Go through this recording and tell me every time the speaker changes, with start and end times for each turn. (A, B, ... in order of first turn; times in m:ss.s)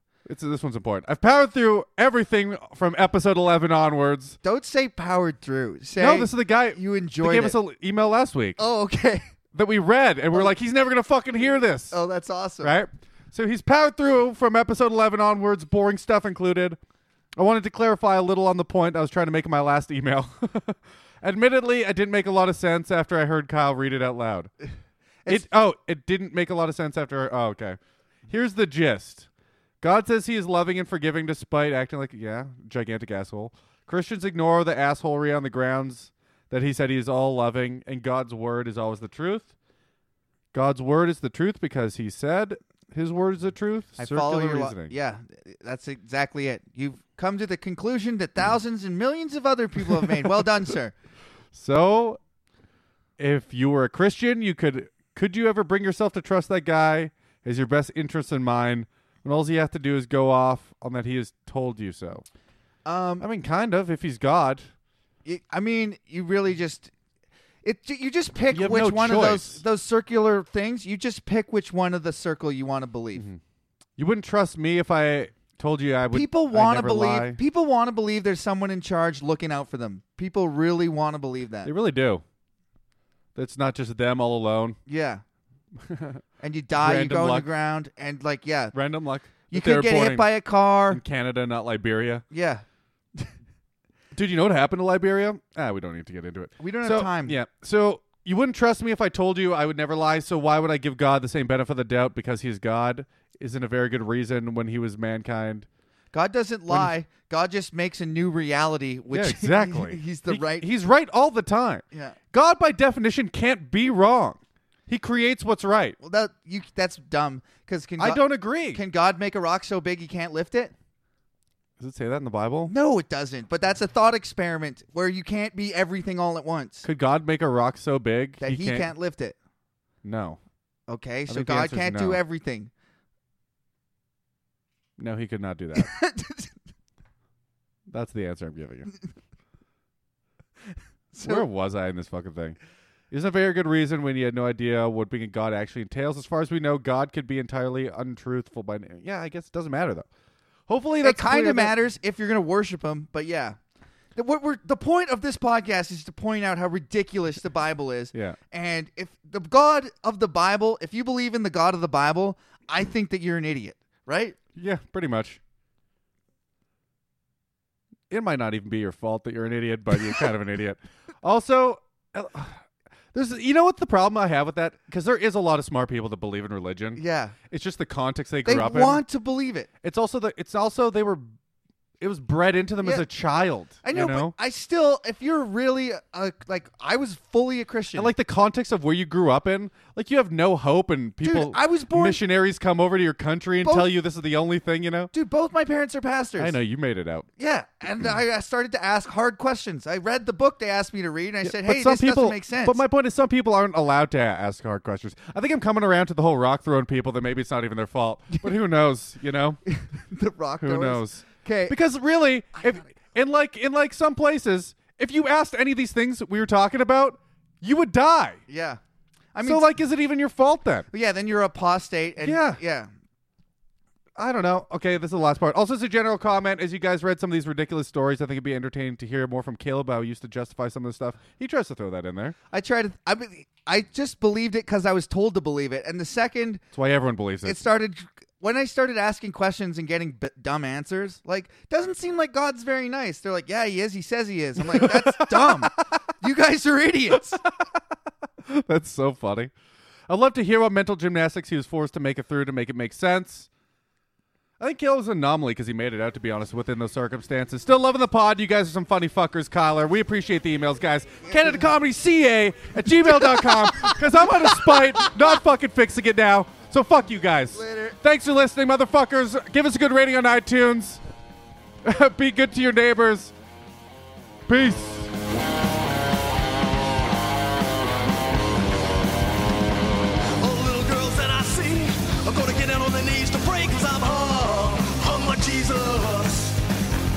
0:00.2-0:04.4 A
0:04.4-0:07.6 B
0:06.0-0:08.6 A
0:08.6-0:09.2 B
0:09.5-0:11.9 A
0:11.9-0:12.7 B
0:12.6-0:16.8 A
0:17.4-0:24.5 A
0:25.3-0:29.3 A
0:29.8-0:39.5 A
0:40.5-0:44.9 A
0:44.0-0:50.9 B
0:51.5-0:52.2 A
0:53.2-1:02.2 A
1:02.8-1:03.2 B
1:03.2-1:04.7 A
1:05.2-1:06.9 B
1:07.6-1:13.2 B
1:08.5-1:09.6 A
1:13.1-1:13.4 A
1:14.0-1:17.4 A
1:16.1-1:21.7 B
1:21.6-1:22.2 A
1:23.3-1:24.8 A
1:24.9-1:25.2 B
1:25.8-1:26.2 A
1:26.4-1:28.7 B
1:26.8-1:27.5 A
1:28.7-1:30.3 A
1:29.5-1:31.0 B
1:30.9-1:32.2 A
1:32.3-1:32.6 B
1:34.1-1:45.7 A
1:36.6-1:37.4 B
1:46.1-1:50.7 B
1:49.1-1:56.0 A
1:56.0-2:00.7 B
1:58.0-1:58.8 A
2:01.8-2:02.7 A
2:02.7-2:06.8 B
2:06.8-2:08.9 A
2:08.4-2:09.4 B
2:10.0-2:10.4 A
2:10.9-2:12.7 B
2:11.3-2:12.2 A
2:15.0-2:15.9 A
2:15.7-2:16.5 B
2:17.9-2:18.9 A
2:21.1-2:21.4 B
2:21.2-2:22.6 A
2:23.1-2:30.1 A
2:30.7-2:31.7 A
2:31.0-2:33.6 B
2:34.1-2:44.4 B
2:44.5-2:45.4 A
2:48.1-2:59.0 A
2:57.0-2:57.3 B
2:58.4-2:59.7 B
2:59.8-3:01.2 A
3:02.0-3:04.3 A
3:03.8-3:08.1 B
3:07.9-3:15.1 A
3:11.2-3:12.2 B
3:13.6-3:13.9 B
3:15.1-3:16.5 B
3:16.4-3:17.3 A
3:17.4-3:22.8 B
3:21.4-3:29.6 A
3:29.7-3:31.8 B
3:30.6-3:38.4 A
3:38.5-3:38.8 B
3:39.3-3:39.6 B
3:39.4-3:40.9 A
3:40.9-3:42.9 B
3:42.2-3:42.6 A
3:44.2-3:52.4 A
3:52.5-3:56.6 B
3:56.7-3:57.6 A
3:57.4-4:07.4 B
4:04.6-4:05.8 A
4:07.1-4:07.8 A
4:08.4-4:09.5 A
4:10.1-4:13.5 A
4:14.6-4:31.0 A
4:23.2-4:24.8 B
4:27.5-4:28.0 B
4:31.8-4:33.3 A
4:34.5-4:35.1 A
4:40.4-4:46.6 C